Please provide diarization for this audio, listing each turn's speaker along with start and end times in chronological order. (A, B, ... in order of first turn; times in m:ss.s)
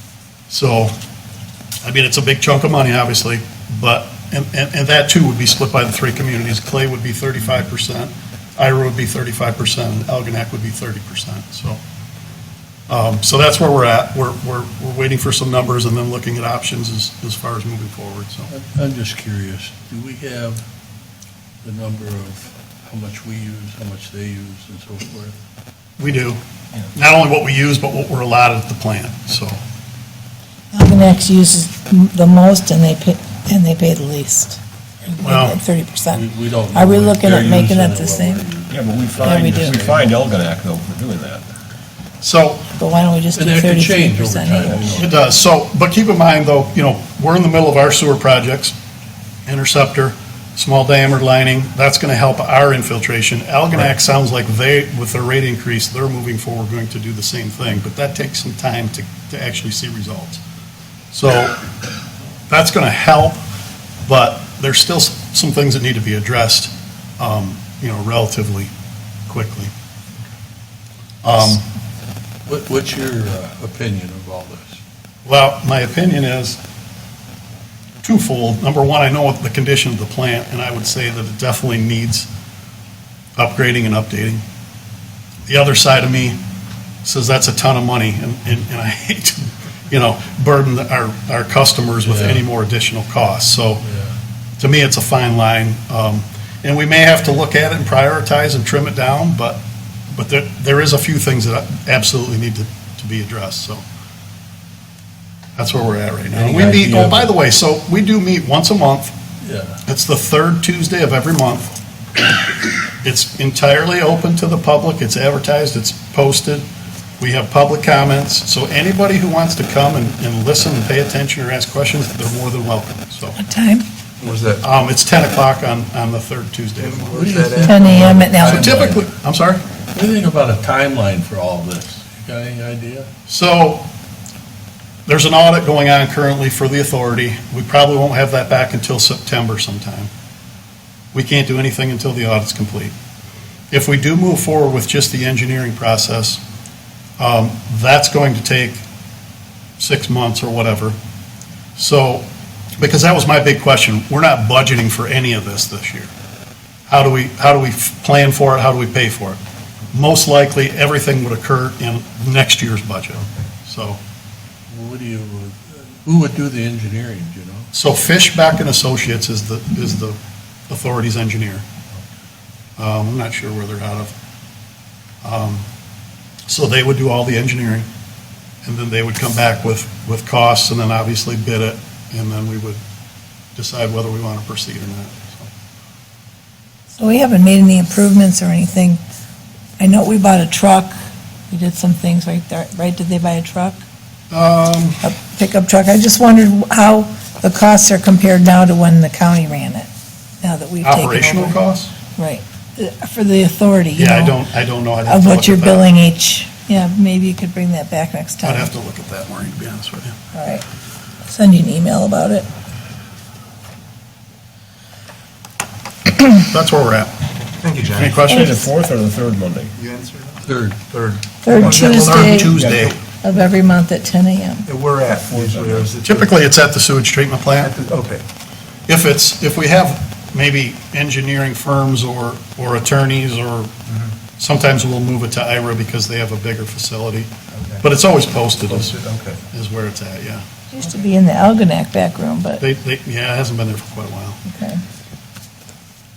0:00.5-0:00.9 A
0:01.8-0:11.8 A
0:12.9-0:18.5 A
0:18.5-0:20.6 B
0:21.6-0:25.4 B
0:26.0-0:26.4 A
0:26.9-0:29.6 A
0:30.7-0:38.5 C
0:35.2-0:35.6 A
0:36.1-0:40.0 B
0:38.7-0:41.4 D
0:39.2-0:39.8 C
0:42.2-0:42.7 A
0:42.8-0:45.0 C
0:43.3-0:44.9 B
0:44.6-0:45.1 D
0:45.0-0:48.8 A
0:49.4-1:00.4 A
1:01.1-1:01.6 A
1:02.5-1:03.4 A
1:04.0-1:08.7 A
1:09.3-1:09.7 A
1:11.2-1:11.6 A
1:12.4-1:14.8 B
1:15.2-1:16.6 A
1:18.0-1:22.3 A
1:23.4-1:24.4 A
1:25.5-1:26.4 A
1:27.0-1:33.8 A
1:32.0-1:32.4 B
1:33.8-1:34.1 B
1:34.6-1:43.8 A
1:45.6-1:49.1 A
1:46.3-1:47.3 B
1:49.4-1:49.8 B
1:49.8-1:51.7 A
1:52.9-1:56.6 A
1:57.2-2:03.4 A
2:03.4-2:03.9 C
2:04.2-2:04.6 E
2:04.6-2:07.3 A
2:06.8-2:08.3 E
2:07.1-2:09.1 B
2:07.7-2:08.8 C
2:08.3-2:09.6 A
2:09.9-2:13.1 B
2:13.3-2:13.9 A
2:15.1-2:20.1 A
2:21.1-2:22.9 A
2:23.7-2:26.4 A
2:27.2-2:28.8 A
2:29.8-2:31.0 A
2:31.8-2:32.2 A
2:32.8-2:36.1 A
2:36.9-2:39.4 A
2:39.9-2:44.0 A
2:44.7-2:47.7 B
2:47.7-2:50.2 A
2:50.7-2:51.7 A
2:52.8-2:54.1 A
2:55.2-2:55.6 A
2:56.5-2:57.9 A
2:58.6-3:02.8 A
3:03.6-3:05.5 A
3:07.0-3:09.0 C
3:09.8-3:10.9 C
3:11.5-3:13.8 C
3:14.3-3:15.1 A
3:15.0-3:19.9 C
3:20.4-3:21.6 C
3:20.8-3:21.9 A
3:22.1-3:24.4 C
3:24.0-3:25.9 A
3:25.0-3:28.7 C
3:28.4-3:30.2 A
3:30.3-3:30.6 C
3:31.2-3:32.5 C
3:36.3-3:37.1 A
3:37.6-3:38.2 E
3:38.0-3:38.5 A
3:38.2-3:39.7 D
3:38.3-3:38.7 C
3:39.8-3:43.0 E
3:40.4-3:40.8 B
3:41.4-3:42.5 C
3:41.5-3:43.0 A
3:43.2-3:44.7 C
3:44.6-3:46.3 E
3:45.1-3:45.9 D
3:46.0-3:47.7 A
3:47.6-3:48.2 E
3:48.9-3:53.7 A
3:54.4-3:57.3 A
3:57.5-3:57.8 E
3:57.8-3:59.0 A
3:58.7-3:59.4 E
3:59.5-4:00.4 A
4:00.7-4:02.6 C
4:02.6-4:04.4 A
4:04.4-4:04.8 C